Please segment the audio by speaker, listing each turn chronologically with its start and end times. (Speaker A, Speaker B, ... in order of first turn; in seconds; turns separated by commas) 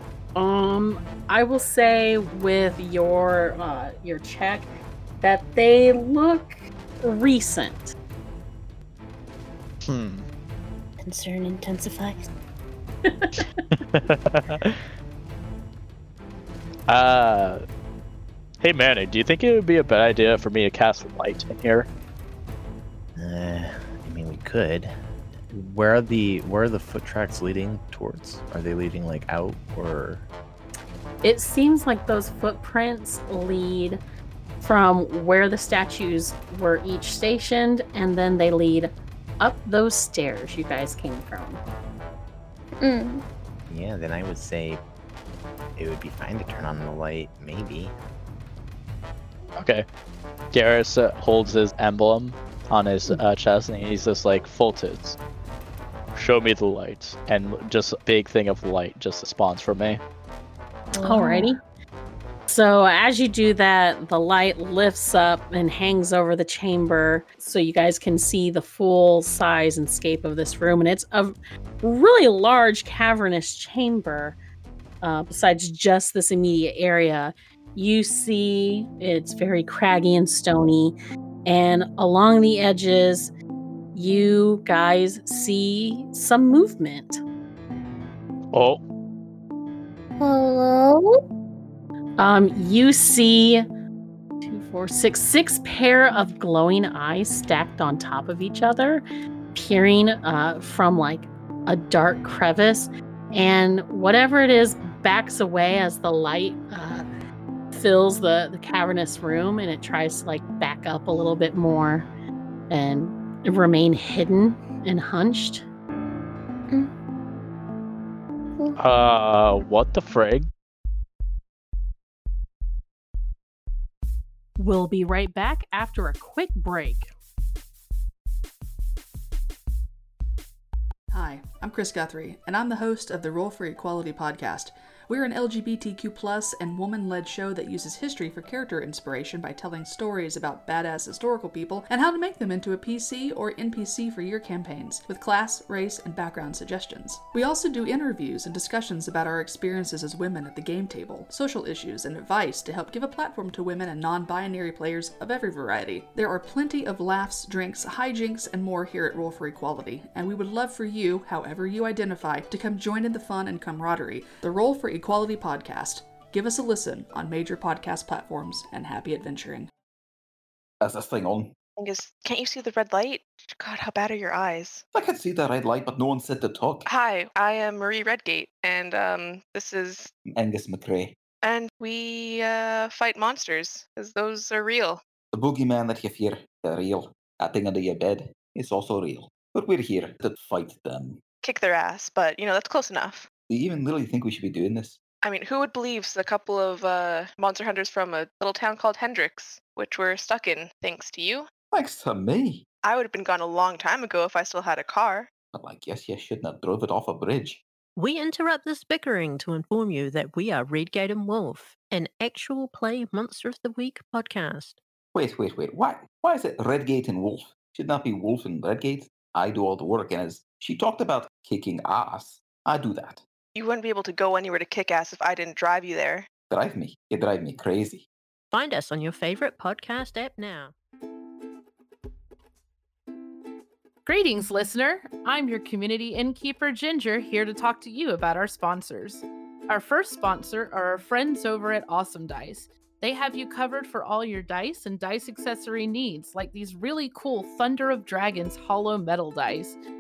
Speaker A: 0.3-4.7, Speaker A: 5.2-8.0, Speaker B: 9.9-10.2, Speaker C: 11.0-12.3, Speaker A: 13.1-13.4, Speaker B: 13.9-14.8, Speaker B: 16.9-17.6, Speaker B: 18.6-21.9, Speaker D: 23.2-25.0, Speaker D: 25.5-30.3, Speaker A: 31.2-34.0, Speaker A: 34.6-41.6, Speaker C: 42.8-43.2, Speaker D: 43.7-44.8, Speaker D: 45.8-47.9, Speaker B: 49.6-49.9, Speaker B: 50.5-55.2, Speaker B: 56.1-60.0, Speaker C: 60.9-61.5, Speaker A: 61.0-61.6, Speaker A: 62.5-74.4, Speaker A: 75.0-83.3, Speaker A: 83.9-87.2, Speaker B: 88.5-88.8, Speaker C: 90.2-91.2, Speaker A: 92.2-93.7, Speaker A: 94.4-107.1, Speaker A: 107.7-112.1, Speaker A: 112.7-115.7, Speaker B: 118.8-120.5, Speaker A: 124.6-127.1, Speaker E: 131.1-169.7, Speaker F: 170.8-171.5, Speaker G: 171.8-174.8, Speaker F: 174.9-176.9, Speaker G: 176.9-180.1, Speaker F: 180.4-181.2, Speaker G: 181.4-185.0, Speaker F: 185.3-191.2, Speaker G: 191.4-193.3, Speaker F: 193.5-195.0, Speaker G: 195.2-201.5, Speaker F: 201.7-202.7, Speaker G: 202.8-205.3, Speaker F: 205.5-207.6, Speaker H: 208.0-214.8, Speaker F: 215.2-223.2, Speaker G: 223.6-226.3, Speaker F: 226.5-228.1, Speaker H: 228.5-230.7, Speaker I: 234.1-249.8